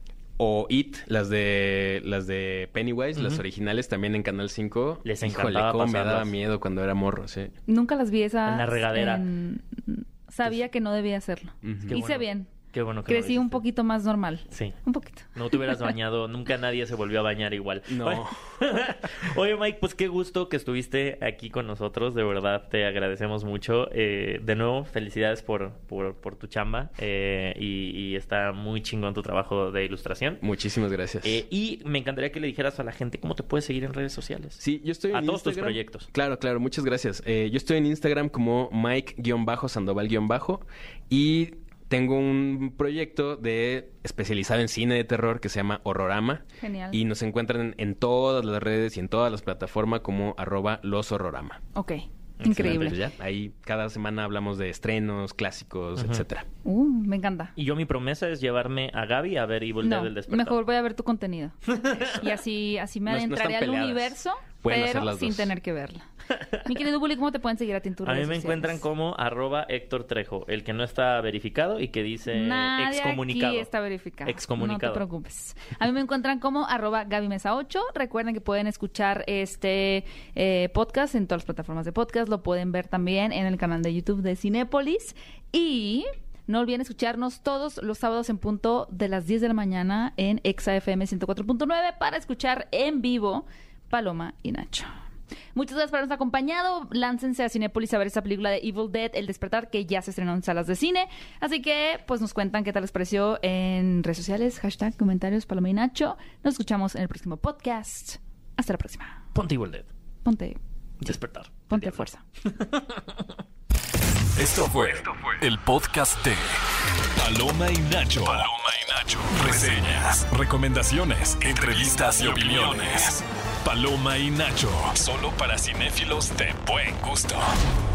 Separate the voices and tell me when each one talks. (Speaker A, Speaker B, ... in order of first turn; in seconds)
Speaker A: 0.4-7.5, 11.6-12.0, 17.9-18.5, 30.4-31.4, 34.6-51.6, 52.5-56.5, 63.0-65.5
Speaker B: 3.1-3.4, 5.0-6.3, 8.4-9.2, 11.9-13.6, 14.5-14.8, 15.3-30.4, 31.2-34.6, 35.1-36.1, 52.4-52.9, 56.0-56.2, 57.5-60.6, 61.7-62.2, 66.3-66.7, 68.0-73.7, 74.2-75.0, 109.3-109.9, 111.0-113.2
Speaker C: 7.7-12.5, 13.1-15.9, 46.6-47.0, 51.7-53.0, 56.6-57.5, 59.8-68.8, 72.3-94.9, 95.5-109.2, 110.2-111.1, 111.7-112.2
Speaker D: 114.3-116.6, 117.2-127.5